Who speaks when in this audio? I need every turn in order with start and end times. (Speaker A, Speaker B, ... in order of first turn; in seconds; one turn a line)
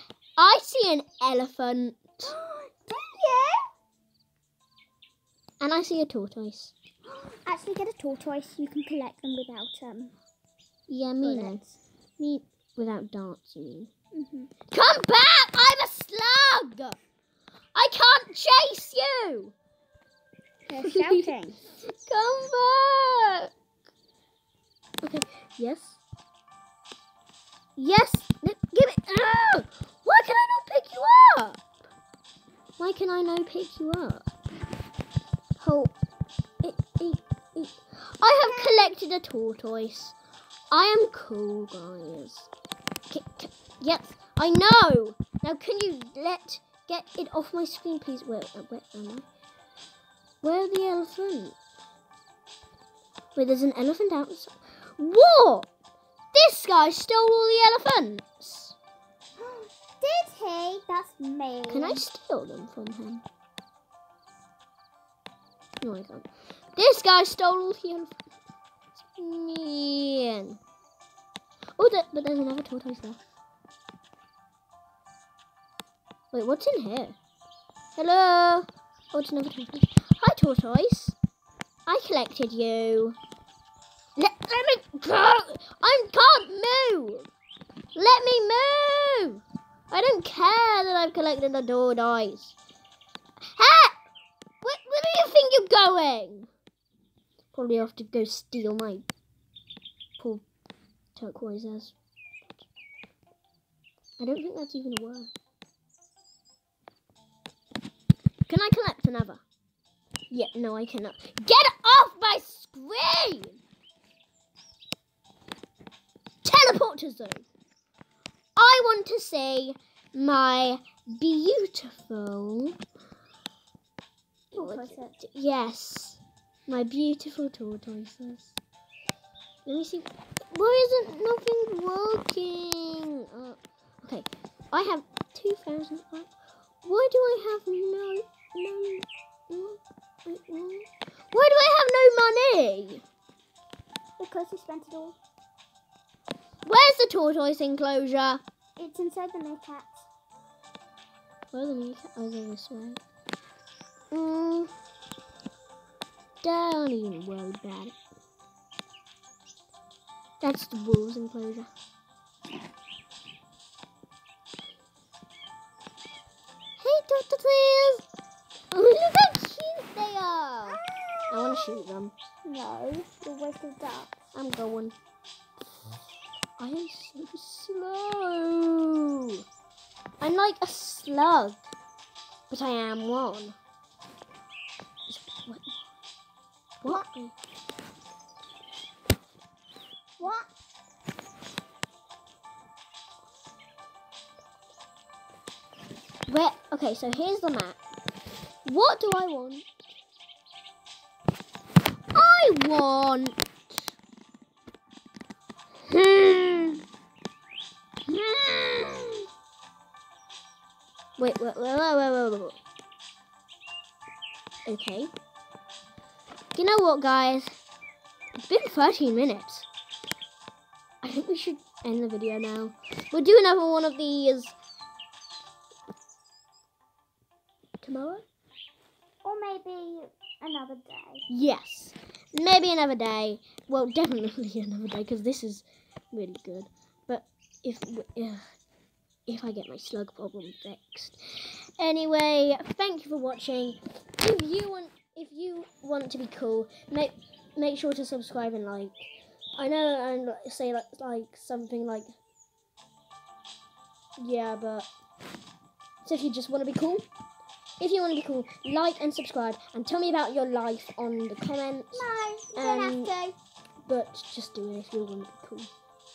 Speaker A: 0.4-2.3
Speaker B: 2.2-3.6
Speaker A: 5.6-6.7
Speaker B: 7.1-10.1
Speaker A: 10.9-11.6
Speaker B: 11.2-11.8
Speaker A: 12.2-13.9
Speaker B: 14.1-14.5
Speaker A: 14.7-17.0
Speaker A: 17.8-19.6
Speaker B: 20.7-21.6
Speaker A: 20.8-21.1
Speaker A: 21.7-23.5
Speaker A: 25.0-26.0
Speaker A: 27.8-31.6
Speaker A: 32.8-34.3
Speaker A: 35.6-35.9
Speaker A: 36.6-40.2
Speaker B: 38.4-38.8
Speaker A: 40.7-42.5
Speaker A: 43.1-49.3
Speaker A: 50.4-51.6
Speaker A: 53.4-55.7
Speaker A: 56.3-58.8
Speaker B: 59.4-62.0
Speaker A: 61.7-63.2
Speaker A: 65.8-68.2
Speaker A: 69.0-70.6
Speaker A: 71.8-73.2
Speaker A: 76.3-77.2
Speaker A: 78.0-81.2
Speaker A: 81.9-83.2
Speaker A: 84.2-87.3
Speaker A: 88.0-92.5
Speaker A: 93.5-94.0
Speaker A: 94.6-96.5
Speaker A: 97.5-99.0
Speaker A: 100.2-100.4
Speaker A: 101.2-101.9
Speaker A: 104.2-105.3
Speaker A: 108.5-109.4
Speaker A: 110.3-113.6
Speaker A: 116.4-117.5
Speaker A: 118.6-122.8
Speaker B: 124.5-125.1
Speaker A: 124.5-128.6
Speaker A: 129.7-136.3
Speaker A: 136.8-143.0
Speaker B: 144.2-145.2
Speaker A: 146.7-148.4
Speaker B: 148.8-150.1
Speaker A: 151.5-153.0
Speaker A: 154.1-154.7
Speaker A: 156.4-157.9
Speaker A: 160.4-161.7
Speaker A: 166.8-168.0
Speaker A: 168.7-172.1
Speaker B: 170.7-171.8
Speaker B: 172.4-174.2
Speaker A: 174.3-174.9
Speaker A: 176.6-179.4
Speaker A: 180.2-181.7
Speaker A: 182.5-183.6
Speaker A: 185.1-185.9
Speaker A: 186.8-187.3
Speaker B: 190.2-190.5
Speaker A: 196.3-197.8
Speaker A: 198.7-199.7
Speaker A: 202.1-203.9
Speaker A: 205.9-206.8
Speaker A: 208.1-209.2
Speaker A: 211.2-212.6
Speaker A: 214.7-215.1
Speaker A: 216.6-217.6
Speaker A: 218.4-219.7
Speaker A: 221.0-224.6
Speaker A: 227.8-228.2
Speaker B: 229.2-231.3
Speaker A: 231.3-238.4
Speaker A: 239.3-252.2
Speaker A: 254.2-254.9
Speaker A: 256.0-257.1
Speaker A: 257.8-263.1
Speaker B: 261.9-263.4
Speaker A: 263.9-265.7